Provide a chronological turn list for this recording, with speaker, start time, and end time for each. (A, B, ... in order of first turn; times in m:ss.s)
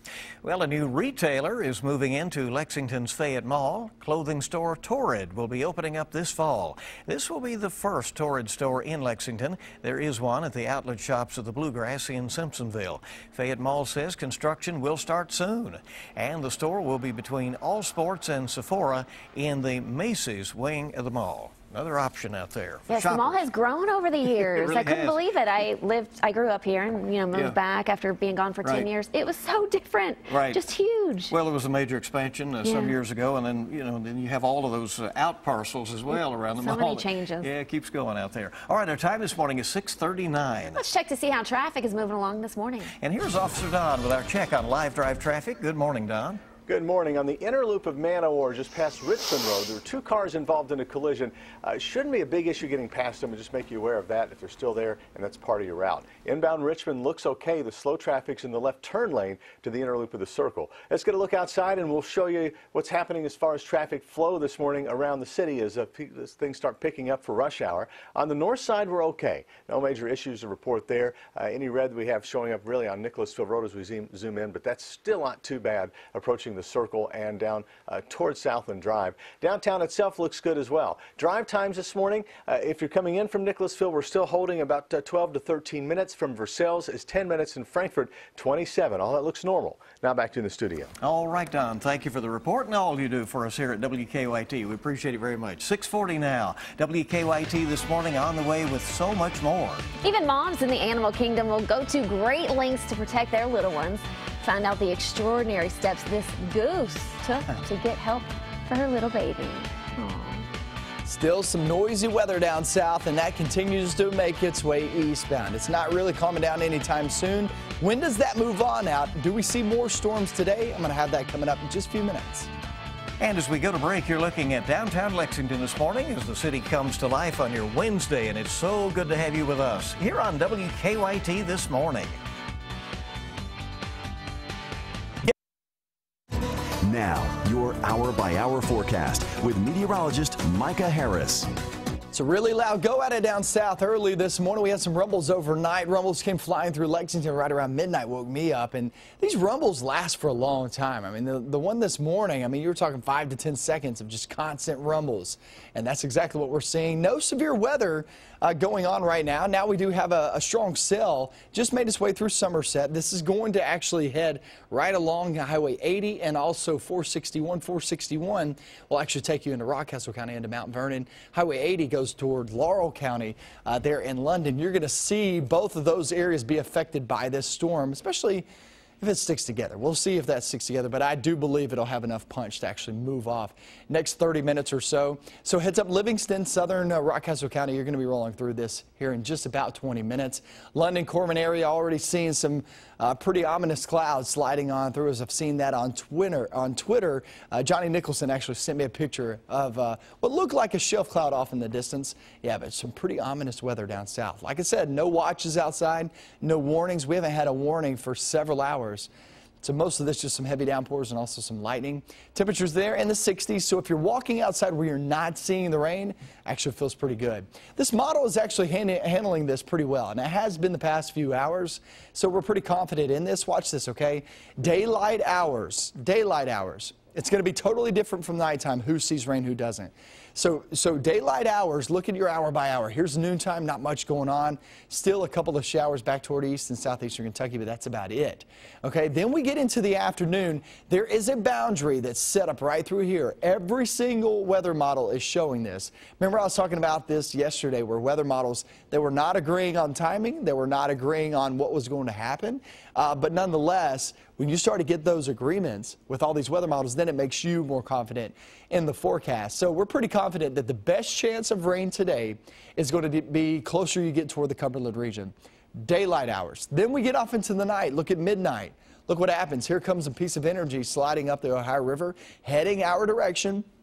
0:00.4-0:23.5 A
0:22.9-0:31.3 B
0:24.4-0:25.2 A
0:28.6-0:28.9 A
0:30.3-0:30.6 A
0:31.3-0:40.8 A
0:32.6-0:33.0 B
0:36.1-0:37.5 B
0:40.7-0:42.9 B
0:43.0-0:46.4 A
0:46.7-1:30.9 C
1:31.0-1:39.9 A
1:40.0-1:50.5 B
1:51.0-2:02.5 D
2:03.2-2:12.2 A
2:16.8-2:21.5 E
2:22.1-2:58.5 D
2:59.0-3:29.1 D
3:29.6-4:33.6 D